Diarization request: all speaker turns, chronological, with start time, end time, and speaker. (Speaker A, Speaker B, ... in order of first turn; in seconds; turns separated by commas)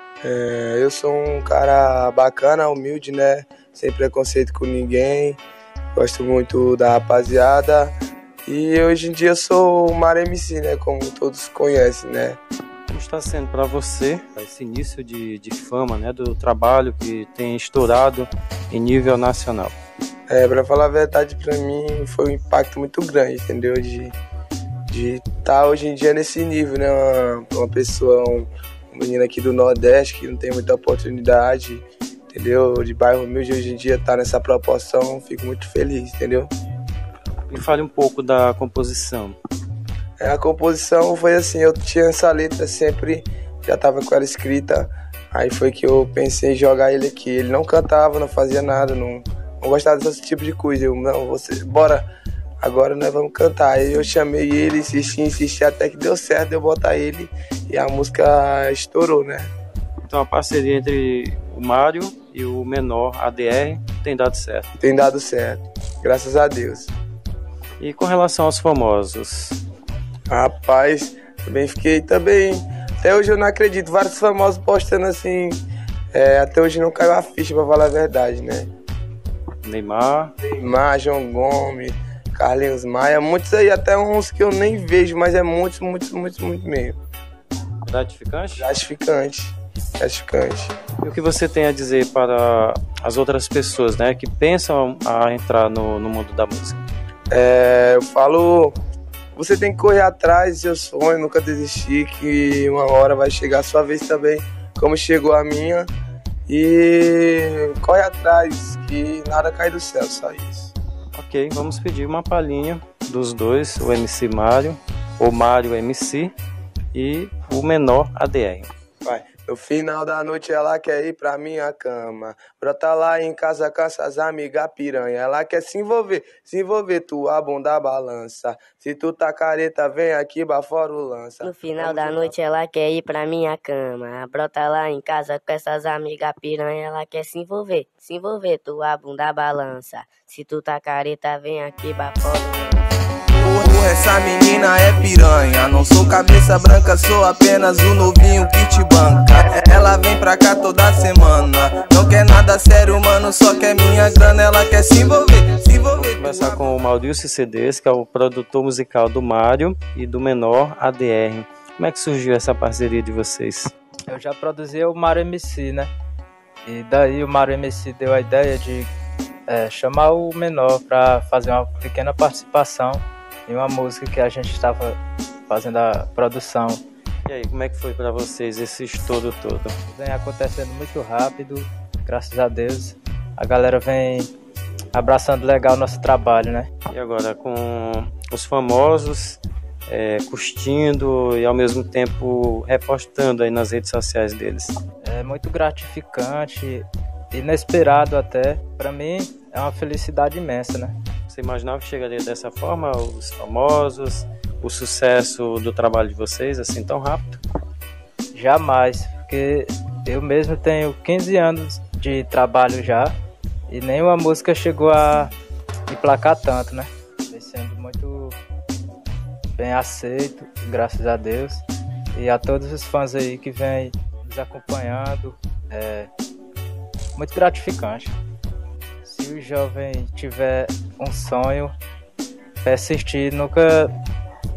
Speaker A: 0.2-5.4, Speaker A: 6.0-8.0, Speaker A: 8.5-12.4, Speaker B: 12.9-19.8, Speaker A: 20.3-24.2, Speaker A: 24.9-36.5, Speaker B: 37.5-39.4, Speaker A: 40.2-52.1, Speaker A: 52.6-59.5, Speaker B: 60.1-64.7, Speaker A: 64.8-66.9, Speaker B: 67.8-69.6, Speaker A: 70.3-75.6, Speaker A: 76.1-78.7, Speaker B: 79.6-80.3, Speaker A: 80.5-87.0, Speaker B: 87.9-88.7, Speaker A: 88.6-90.7, Speaker B: 91.0-96.8, Speaker A: 97.3-98.8, Speaker A: 99.3-105.9, Speaker A: 106.5-110.7, Speaker B: 111.2-116.3, Speaker B: 116.9-118.7, Speaker A: 119.0-132.4, Speaker C: 131.4-142.8, Speaker D: 143.5-156.4, Speaker A: 143.5-148.1, Speaker A: 148.8-151.4, Speaker A: 152.0-152.5, Speaker A: 153.5-154.1, Speaker A: 154.8-155.9, Speaker B: 155.9-163.7, Speaker E: 164.1-165.9, Speaker E: 166.7-168.9, Speaker E: 169.5-175.0, Speaker E: 175.5-176.8, Speaker B: 177.3-179.8, Speaker E: 179.9-184.3, Speaker E: 184.9-186.7, Speaker B: 186.9-194.7, Speaker E: 195.1-200.9, Speaker B: 201.3-207.4, Speaker E: 208.4-213.1, Speaker E: 213.7-215.3, Speaker E: 215.9-218.4, Speaker E: 219.6-221.6, Speaker E: 222.2-226.1, Speaker E: 227.2-228.2, Speaker E: 229.0-231.7, Speaker E: 232.6-233.9